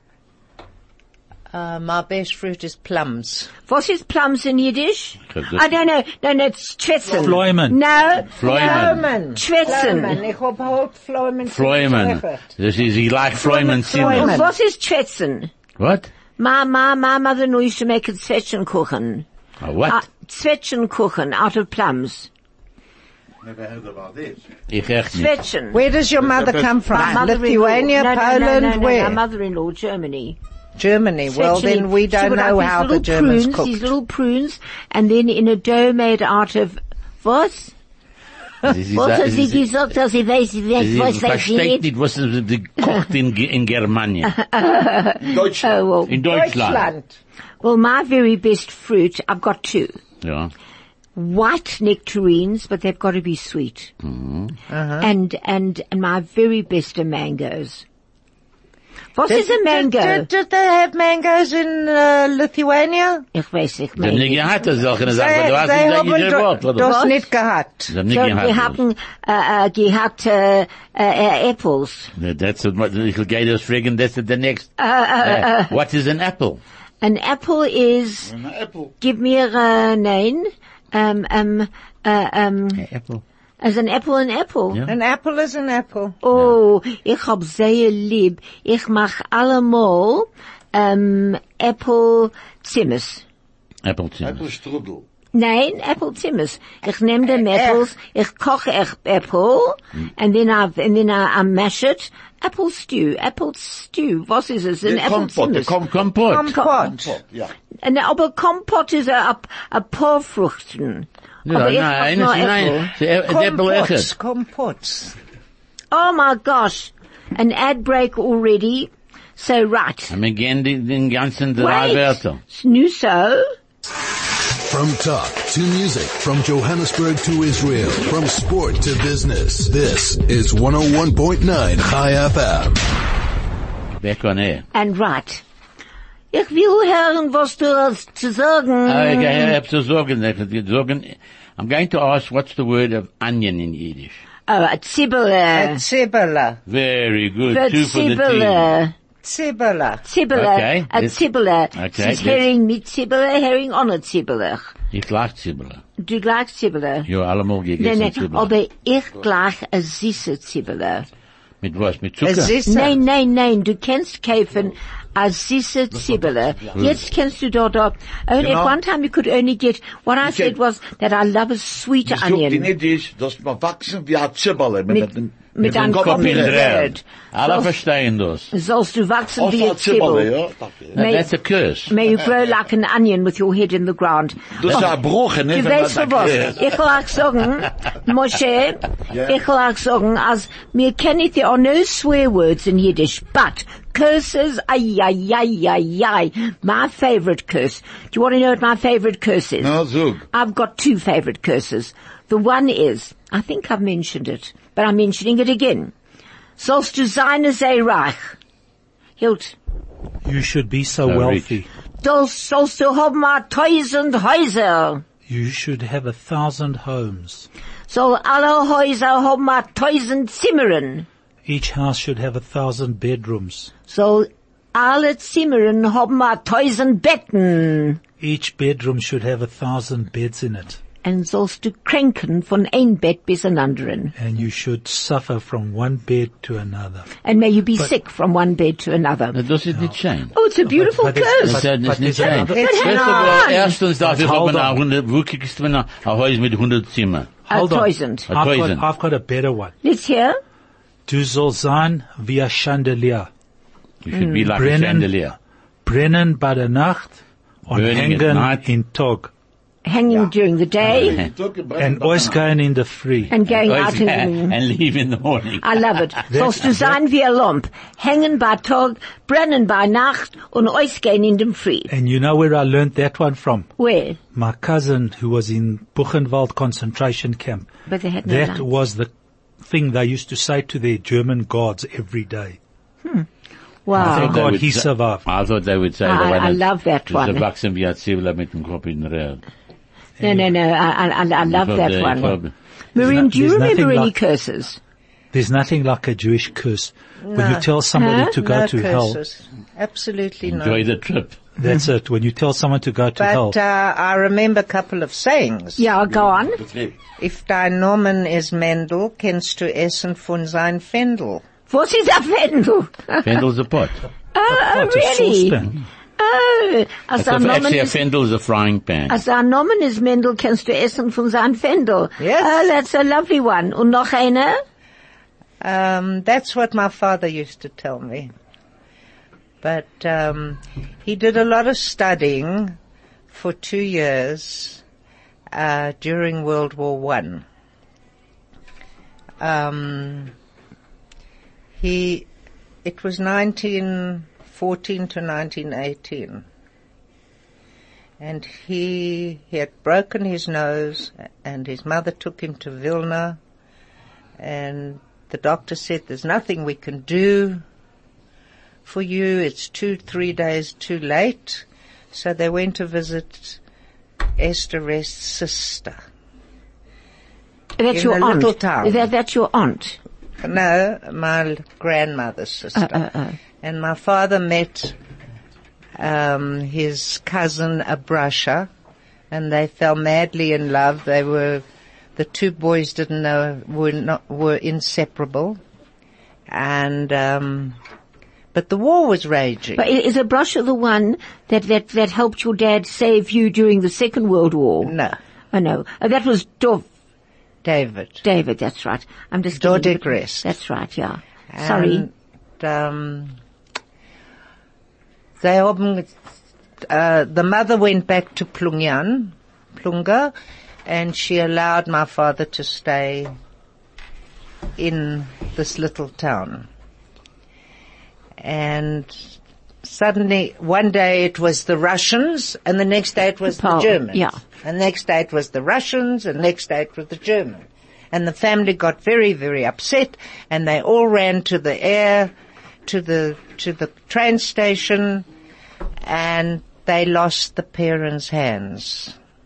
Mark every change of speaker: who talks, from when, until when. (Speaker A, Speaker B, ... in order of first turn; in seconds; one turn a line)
Speaker A: 1.5-3.5
Speaker B: 3.7-10.2
Speaker C: 5.3-5.6
Speaker D: 7.1-7.8
Speaker C: 8.4-9.0
Speaker A: 8.4-12.4
Speaker C: 11.4-14.4
Speaker A: 13.4-14.5
Speaker B: 13.8-15.5
Speaker C: 15.8-16.1
Speaker B: 16.4-19.2
Speaker C: 19.6-20.0
Speaker B: 19.9-22.3
Speaker E: 23.4-24.4
Speaker C: 24.7-25.3
Speaker B: 25.1-25.8
Speaker A: 25.7-29.2
Speaker E: 26.2-27.1
Speaker B: 26.9-30.4
Speaker A: 30.8-33.9
Speaker B: 31.3-37.7
Speaker C: 38.6-39.7
Speaker B: 38.9-41.8
Speaker C: 40.8-44.3
Speaker B: 44.2-46.1
Speaker E: 45.2-45.8
Speaker C: 46.1-46.9
Speaker A: 46.2-47.2
Speaker B: 47.6-50.0
Speaker C: 50.2-50.5
Speaker B: 51.1-53.9
Speaker C: 54.0-54.5
Speaker A: 54.7-55.1
Speaker B: 55.0-57.8
Speaker B: 59.1-60.3
Speaker A: 59.3-63.2
Speaker B: 63.3-64.5
Speaker C: 64.0-66.9
Speaker A: 65.0-67.9
Speaker B: 66.8-67.2
Speaker C: 67.9-68.8
Speaker B: 68.1-72.1
Speaker C: 72.2-74.7
Speaker B: 74.8-75.7
Speaker C: 75.2-76.6
Speaker B: 77.0-78.3
Speaker E: 78.2-78.9
Speaker B: 79.0-82.8
Speaker C: 82.9-83.2
Speaker B: 83.6-84.8
Speaker A: 84.9-86.2
Speaker B: 86.2-93.2
Speaker C: 93.8-94.4
Speaker E: 94.2-95.0
Speaker B: 95.3-105.8
Speaker A: 97.4-97.8
Speaker E: 104.8-106.1
Speaker C: 105.9-106.5
Speaker A: 106.3-107.2
Speaker E: 106.6-107.5
Speaker B: 107.8-112.9
Speaker C: 111.4-114.1
Speaker A: 113.2-115.2
Speaker B: 115.9-120.1
Speaker C: 120.1-122.4
Speaker B: 121.6-123.5
Speaker F: 124.6-132.8
Speaker C: 134.0-134.7
Speaker B: 134.7-135.4
Speaker B: 136.3-139.5
Speaker C: 138.9-144.2
Speaker B: 144.5-145.8
Speaker A: 145.5-146.6
Speaker C: 146.7-148.7
Speaker B: 147.5-148.9
Speaker A: 149.2-150.0
Speaker B: 150.1-154.7
Speaker C: 150.3-151.2
Speaker C: 151.7-152.5
Speaker C: 154.9-155.8
Speaker B: 156.0-157.1
Speaker C: 157.1-158.5
Speaker B: 157.8-161.1
Speaker C: 161.6-162.5
Speaker A: 162.2-163.0
Speaker B: 162.7-172.7
Speaker E: 166.6-167.0
Speaker E: 168.4-168.8
Speaker E: 170.2-170.5
Speaker E: 172.1-176.8
Speaker B: 174.9-177.7
Speaker C: 175.6-178.5
Speaker B: 178.5-180.3
Speaker E: 179.4-181.0
Speaker B: 180.9-181.3
Speaker C: 181.0-181.9
Speaker B: 181.9-184.8
Speaker E: 184.6-186.7
Speaker B: 185.5-199.8
Speaker E: 189.1-189.4
Speaker E: 199.6-200.3
Speaker B: 200.3-205.9
Speaker B: 206.6-208.3
Speaker B: 209.2-209.5
Speaker D: 210.2-211.7
Speaker C: 211.1-211.6
Speaker B: 212.0-215.0
Speaker D: 215.3-217.5
Speaker B: 217.9-221.1
Speaker D: 221.5-223.7
Speaker B: 223.9-228.0
Speaker D: 228.2-230.8
Speaker B: 231.0-234.1
Speaker D: 234.2-237.1
Speaker B: 237.2-239.4
Speaker C: 239.3-240.3
Speaker D: 239.7-240.0
Speaker B: 240.3-241.7
Speaker D: 240.6-244.8
Speaker C: 241.4-247.3
Speaker B: 242.2-243.7
Speaker D: 247.5-249.7
Speaker B: 247.5-248.3
Speaker C: 248.3-248.8
Speaker B: 249.8-250.4
Speaker D: 251.1-253.3
Speaker C: 254.0-255.3
Speaker D: 254.5-255.2
Speaker D: 255.8-259.3
Speaker C: 257.7-258.6
Speaker B: 259.9-261.2
Speaker E: 260.8-262.4
Speaker C: 260.9-261.2
Speaker D: 261.8-263.3
Speaker B: 263.3-264.5
Speaker C: 263.6-265.8
Speaker B: 265.6-271.9
Speaker D: 266.3-267.0
Speaker D: 271.9-273.7
Speaker B: 273.8-274.2
Speaker D: 274.3-277.7
Speaker B: 277.9-278.7
Speaker D: 278.2-279.1
Speaker D: 279.6-282.6
Speaker B: 283.9-284.5
Speaker D: 283.9-285.2
Speaker C: 284.0-289.4
Speaker B: 286.0-287.4
Speaker D: 290.2-290.5
Speaker B: 290.2-292.4
Speaker C: 291.4-292.5
Speaker B: 292.9-294.8
Speaker D: 293.0-294.1
Speaker D: 295.3-299.2
Speaker A: 297.2-297.7
Speaker B: 297.9-298.3
Speaker A: 298.4-300.9
Speaker C: 300.4-301.4
Speaker D: 301.6-303.5
Speaker A: 303.2-305.8
Speaker B: 305.8-306.6
Speaker E: 306.1-306.9
Speaker A: 307.2-311.4
Speaker B: 311.7-313.4
Speaker C: 313.2-314.0
Speaker B: 314.3-315.6
Speaker D: 314.5-315.8
Speaker B: 316.2-318.0
Speaker C: 317.2-319.2
Speaker B: 319.1-324.6
Speaker A: 322.2-322.7
Speaker A: 325.6-328.3
Speaker A: 329.6-332.8
Speaker A: 333.3-334.8
Speaker A: 335.5-337.4
Speaker A: 339.4-340.3
Speaker A: 341.8-342.3
Speaker A: 342.8-346.4
Speaker A: 348.2-353.4
Speaker A: 354.4-357.6
Speaker A: 358.8-363.6
Speaker A: 364.4-366.0
Speaker B: 367.8-370.0
Speaker A: 367.9-369.0
Speaker A: 370.4-373.1
Speaker B: 372.8-373.3
Speaker A: 373.6-375.0
Speaker A: 376.0-378.7
Speaker A: 379.3-385.6
Speaker A: 386.5-387.8
Speaker A: 388.5-389.8
Speaker B: 389.8-394.9
Speaker A: 394.8-395.2
Speaker B: 395.5-396.8
Speaker A: 397.6-398.2
Speaker B: 398.2-402.1
Speaker A: 399.5-400.5
Speaker A: 401.5-403.4
Speaker A: 405.4-406.1
Speaker A: 406.8-410.3
Speaker A: 410.8-413.3
Speaker A: 414.8-416.7
Speaker A: 418.4-419.3
Speaker A: 419.8-432.3
Speaker B: 423.5-424.4
Speaker A: 432.8-435.3
Speaker A: 436.0-439.1